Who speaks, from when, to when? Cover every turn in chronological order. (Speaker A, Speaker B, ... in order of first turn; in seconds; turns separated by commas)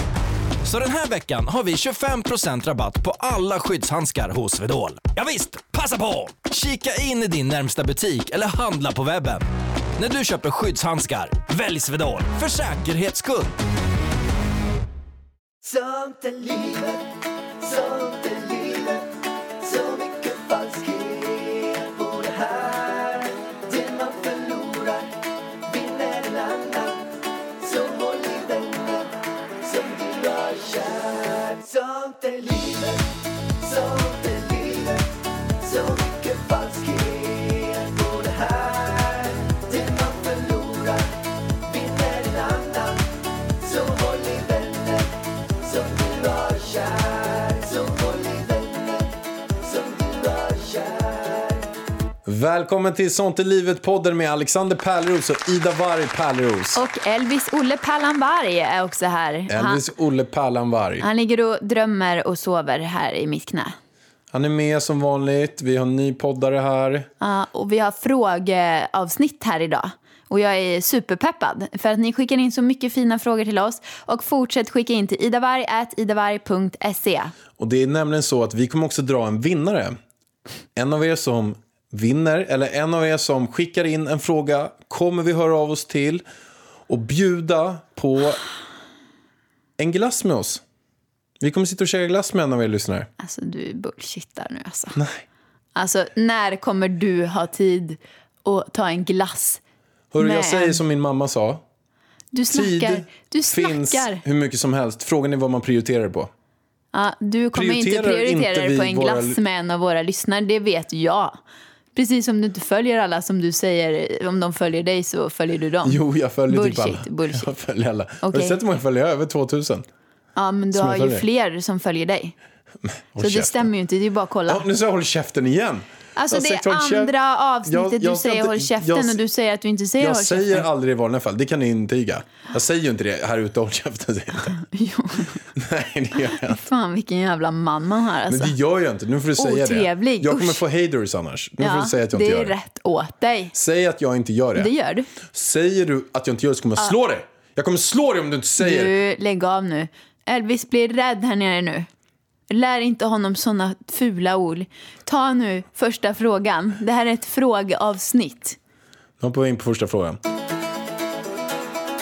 Speaker A: 0.6-9.4, Speaker A: 10.0-13.5, Speaker B: 15.6-17.1, Speaker B: 17.6-25.1, Speaker B: 25.7-27.1, Speaker B: 27.6-43.0, Speaker B: 43.6-51.7, Speaker C: 52.2-56.8, Speaker D: 56.7-59.8, Speaker C: 59.5-61.0, Speaker D: 61.0-63.7, Speaker C: 64.3-67.1, Speaker D: 67.2-77.3, Speaker C: 77.6-80.0, Speaker C: 80.8-86.2, Speaker C: 86.9-88.4, Speaker C: 89.8-90.6, Speaker C: 91.4-93.1, Speaker D: 93.2-95.0, Speaker C: 95.0-95.2, Speaker D: 95.7-99.6, Speaker C: 100.1-101.6, Speaker D: 100.2-100.8, Speaker D: 102.3-104.2, Speaker C: 102.5-106.3, Speaker D: 106.9-111.4, Speaker C: 107.5-109.4, Speaker D: 111.9-117.5, Speaker C: 115.8-119.8, Speaker D: 118.2-118.6, Speaker D: 120.3-122.3, Speaker C: 120.7-121.2, Speaker C: 122.8-123.7, Speaker D: 123.2-124.6, Speaker C: 124.5-127.1, Speaker D: 126.2-130.6, Speaker C: 127.7-129.2, Speaker C: 130.0-134.6, Speaker D: 134.6-135.4, Speaker C: 135.5-136.6, Speaker D: 136.4-138.5, Speaker C: 138.3-142.6, Speaker D: 139.4-140.6, Speaker D: 141.6-143.5, Speaker C: 143.5-144.7, Speaker D: 144.6-145.1, Speaker C: 145.3-148.9, Speaker D: 148.6-151.9, Speaker D: 152.5-158.6, Speaker C: 159.2-160.2